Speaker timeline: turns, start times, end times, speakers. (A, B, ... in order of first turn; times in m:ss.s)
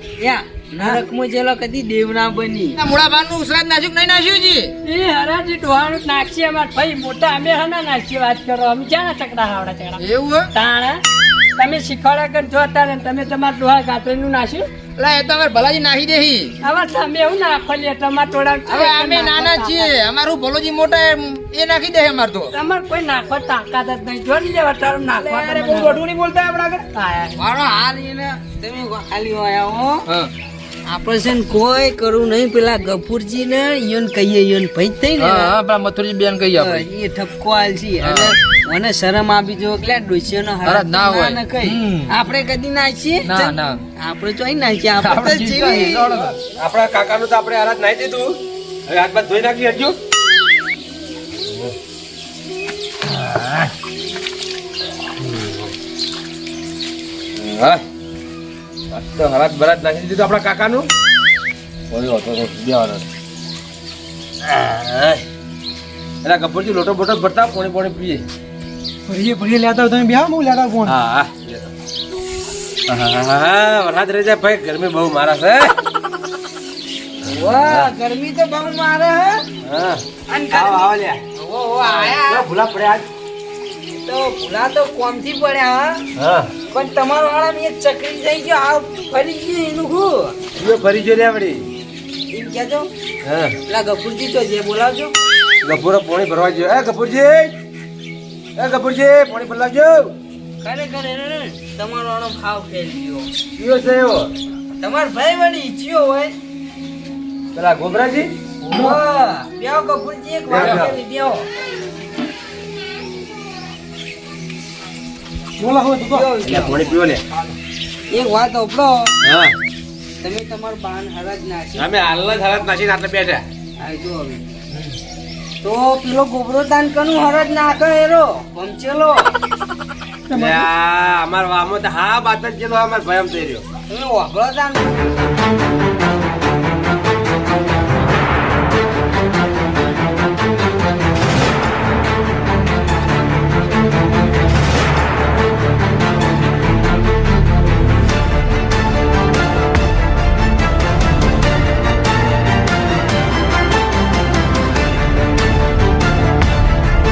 0:00.2-0:02.8 A
0:02.8-0:04.7 B
0:04.8-0:10.0 C
0:10.0-0:10.5 B
0:10.5-0:11.0 C
0:11.6-0:14.6 C
0:15.0-0:16.5 B
0:16.6-0:19.9 C
0:18.7-0:22.5 B
0:22.5-0:26.0 C
0:25.2-0:26.8 B
0:25.7-0:26.0 A
0:27.0-0:27.4 C
0:27.4-0:30.0 A
0:30.9-0:35.5 A
0:35.2-0:36.9 B
0:36.6-0:46.1 A
0:38.0-0:38.4 B
0:40.6-0:42.1 B
0:43.2-0:43.8 B
0:45.0-0:46.4 B
0:46.6-0:48.4 D
0:48.9-0:50.0 D
0:55.2-0:55.7 D
0:57.4-0:57.8 D
0:58.9-1:00.9 D
1:01.9-1:03.0 D
1:04.4-1:05.2 D
1:06.2-1:08.2 D
1:09.1-1:11.0 E
1:10.9-1:11.7 D
1:12.9-1:15.7 D
1:17.2-1:19.5 A
1:17.7-1:17.9 D
1:19.6-1:21.2 D
1:20.3-1:22.5 A
1:21.8-1:23.1 D
1:24.0-1:26.0 A
1:26.2-1:26.5 D
1:26.7-1:30.4 A
1:30.6-1:31.6 D
1:32.3-1:32.9 A
1:33.2-1:33.6 D
1:33.7-1:35.1 A
1:35.6-1:37.5 D
1:38.6-1:40.1 D
1:40.6-1:43.3 A
1:43.6-1:44.3 D
1:44.8-1:46.3 A
1:47.5-1:48.3 D
1:48.7-1:51.5 A
1:50.5-1:50.9 D
1:55.6-1:56.3 E
1:56.1-1:57.0 A
1:56.4-1:57.2 D
1:58.1-1:59.1 A
1:59.2-1:59.5 D
2:00.2-2:01.9 A
2:01.8-2:03.4 D
2:03.8-2:04.5 A
2:05.6-2:09.3 A
2:10.3-2:13.6 D
2:10.4-2:10.6 E
2:13.9-2:15.0 A